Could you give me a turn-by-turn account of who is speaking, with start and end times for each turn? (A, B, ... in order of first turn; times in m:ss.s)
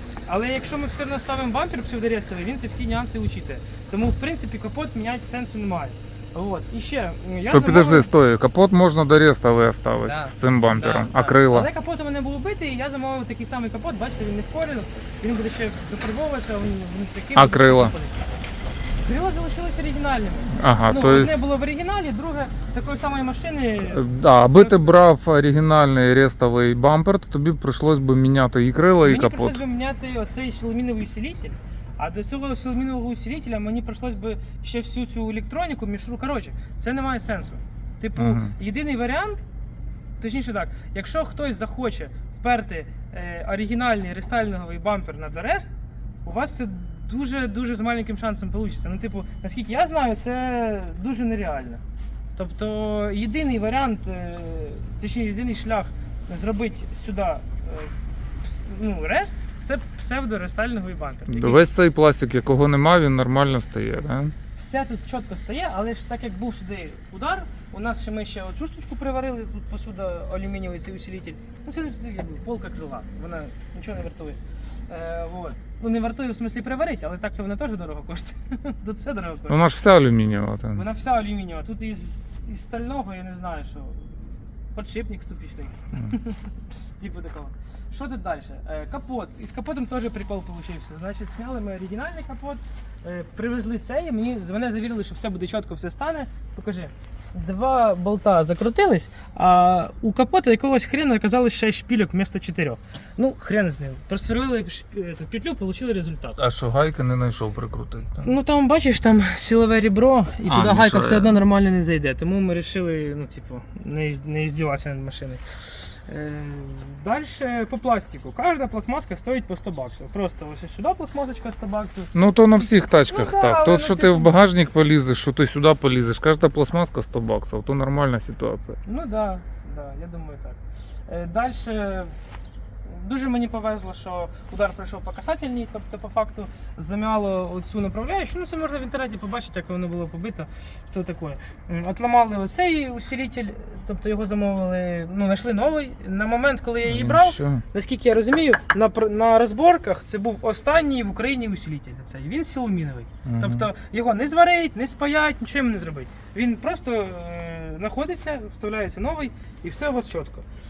0:00.3-0:08.1 A
0:07.5-0:11.7 B
0:10.0-0:18.2 A
0:17.4-0:17.9 B
0:19.0-0:24.0 A
0:20.6-0:21.4 B
0:23.9-0:29.6 B
0:24.6-0:25.0 A
0:29.0-0:39.4 A
0:38.2-0:38.5 B
0:40.2-0:45.7 A
0:46.2-0:51.8 A
0:52.4-1:01.7 A
1:01.3-1:04.3 B
1:04.6-1:19.6 A
1:19.5-1:20.8 B
1:20.8-1:46.4 A
1:46.4-1:48.3 B
1:48.2-2:04.4 A
1:50.5-1:51.4 B
2:02.1-2:08.8 B
2:08.9-2:12.1 A
2:12.8-2:40.5 A
2:26.8-2:27.6 B
2:33.2-2:33.7 B